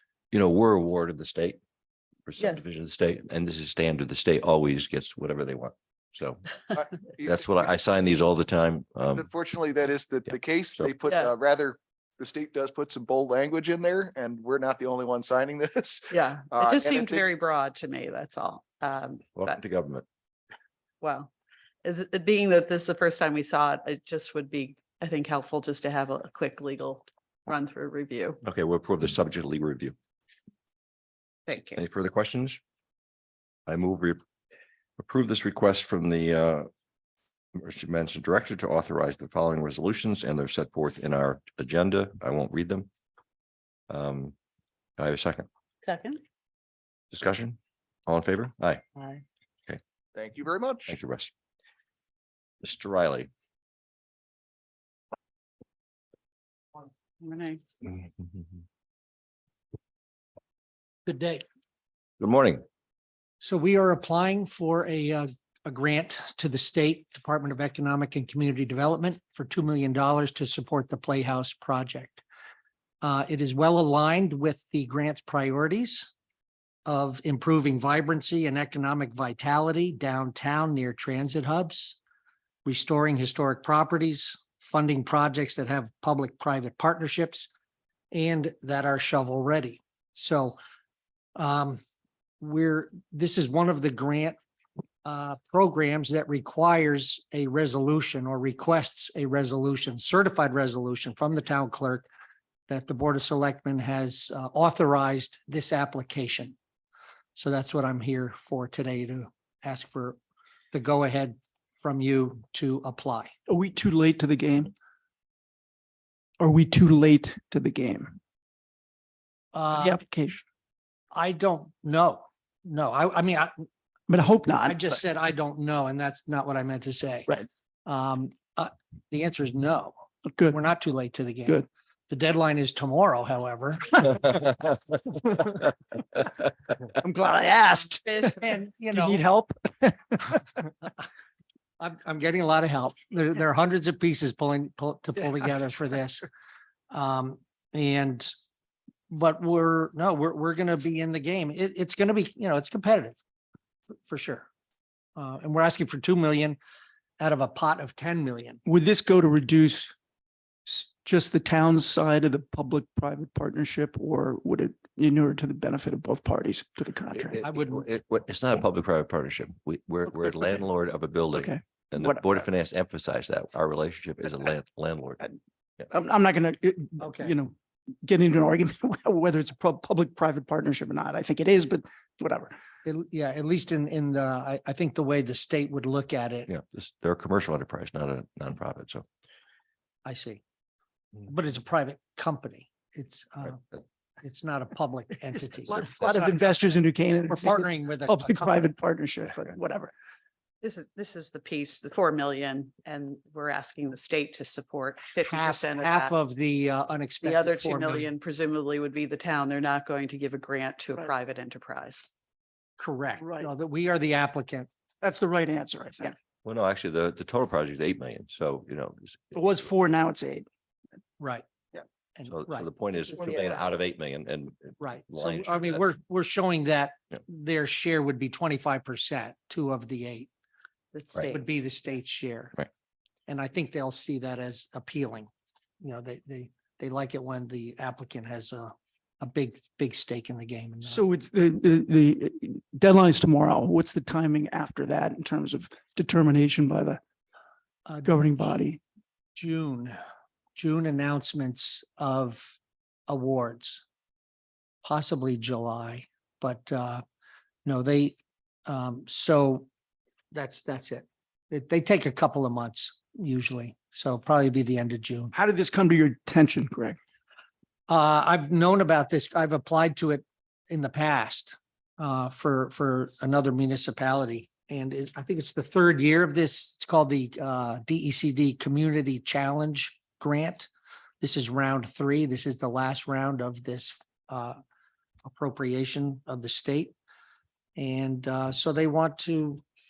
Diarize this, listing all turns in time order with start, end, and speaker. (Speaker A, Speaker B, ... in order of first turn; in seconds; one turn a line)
Speaker A: 0.3-1.6
Speaker A: 2.3-6.4
Speaker B: 2.4-2.6
Speaker C: 7.2-7.7
Speaker A: 7.2-9.3
Speaker C: 9.1-17.2
Speaker B: 16.1-19.6
Speaker A: 19.4-20.1
Speaker B: 21.0-21.3
Speaker B: 21.8-28.4
Speaker A: 28.4-29.9
Speaker B: 31.5-31.8
Speaker A: 31.8-32.6
Speaker A: 33.7-34.2
Speaker A: 35.0-36.7
Speaker A: 37.6-42.9
Speaker A: 43.9-44.4
Speaker A: 45.0-45.5
Speaker B: 45.8-46.2
Speaker A: 47.1-48.8
Speaker B: 49.0-49.2
Speaker C: 50.1-51.0
Speaker A: 50.9-51.3
Speaker A: 52.6-53.3
Speaker B: 57.2-57.6
Speaker D: 61.1-61.5
Speaker A: 62.2-62.6
Speaker D: 63.4-72.2
Speaker D: 73.0-76.1
Speaker D: 76.9-82.0
Speaker D: 82.7-87.5
Speaker D: 88.1-90.6
Speaker D: 91.4-91.8
Speaker D: 92.4-94.4
Speaker D: 95.0-102.1
Speaker D: 102.7-106.5
Speaker D: 107.4-110.2
Speaker D: 110.7-113.3
Speaker E: 113.5-114.7
Speaker E: 116.4-118.2
Speaker D: 119.5-120.0
Speaker E: 119.7-120.4
Speaker D: 121.1-123.7
Speaker E: 124.1-124.8
Speaker D: 124.6-127.3
Speaker D: 127.9-129.9
Speaker E: 130.3-130.6
Speaker D: 130.5-134.7
Speaker E: 137.0-138.4
Speaker D: 138.3-139.2
Speaker E: 138.9-140.6
Speaker D: 141.8-146.3
Speaker D: 146.9-148.3
Speaker D: 149.1-153.2
Speaker D: 154.1-154.5
Speaker D: 155.2-156.6
Speaker D: 157.2-158.6
Speaker E: 158.7-159.9
Speaker E: 160.7-167.4
Speaker A: 167.2-175.2
Speaker D: 167.4-167.9
Speaker E: 171.3-172.4
Speaker E: 175.9-182.5
Speaker D: 177.0-177.3
Speaker D: 182.8-186.5
Speaker A: 186.5-189.1
Speaker D: 190.1-190.4
Speaker D: 191.2-196.8
Speaker E: 195.6-199.9
Speaker A: 195.7-196.2
Speaker D: 197.3-198.7
Speaker B: 200.6-206.2
Speaker D: 205.2-208.1
Speaker B: 207.2-212.1
Speaker D: 212.8-214.7
Speaker E: 213.2-213.5
Speaker E: 215.0-216.2
Speaker A: 216.4-219.4
Speaker E: 219.3-220.5
Speaker D: 221.2-221.4
Speaker D: 222.2-222.7
Speaker A: 222.3-225.9
Speaker D: 224.8-230.3
Speaker B: 230.9-231.5
Speaker D: 231.3-232.6
Speaker D: 233.3-235.3
Speaker D: 235.8-241.0
Speaker E: 240.8-247.0
Speaker D: 247.9-248.2
Speaker E: 248.0-248.8
Speaker D: 249.4-250.0
Speaker D: 250.6-252.6
Speaker D: 253.1-253.8
Speaker D: 254.8-257.0
Speaker D: 257.6-258.1
Speaker D: 258.7-259.7
Speaker D: 260.3-265.3
Speaker E: 265.3-267.0
Speaker D: 267.9-280.7
Speaker D: 281.2-284.6
Speaker D: 285.2-286.9
Speaker D: 287.8-289.6